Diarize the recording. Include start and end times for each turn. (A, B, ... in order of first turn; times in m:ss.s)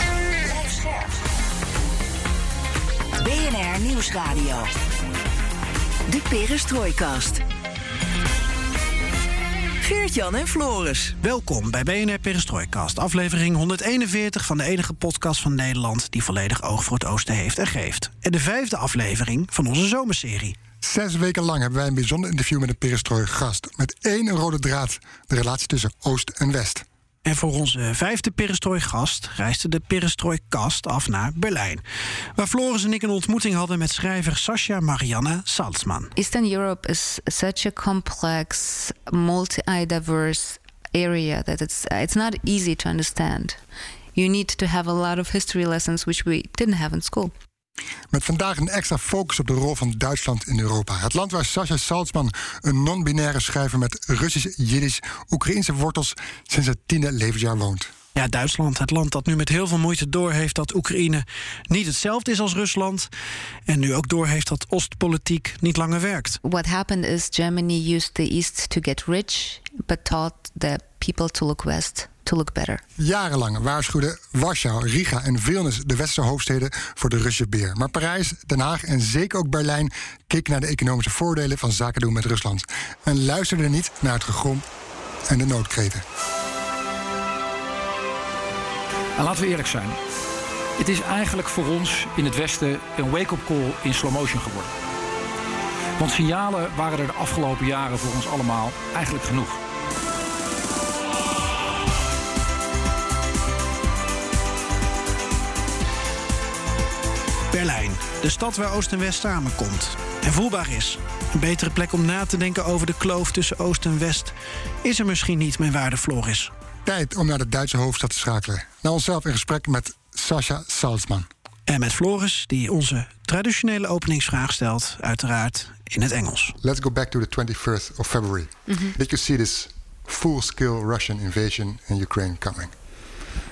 0:00.4-0:01.1 A
0:03.2-0:04.7 A
0:06.1-0:07.4 A
0:09.8-0:11.1 A
0:11.2-0:20.6 B
0:20.8-0:26.8 C
0:27.2-0:31.8 B
0:32.4-0:36.1 B
0:36.2-0:43.6 D
0:44.1-0:47.3 D
0:48.1-0:57.9 C
0:58.1-1:03.1 B
1:03.7-1:06.4 B
1:06.4-1:12.8 D
1:13.0-1:24.6 C
1:25.2-1:26.0 C
1:29.2-1:30.0 E
1:30.8-1:34.7 E
1:36.0-1:39.6 E
1:47.5-1:56.5 B
1:56.8-2:01.3 C
2:01.7-2:06.6 B
2:06.6-2:12.7 C
2:08.7-2:08.9 D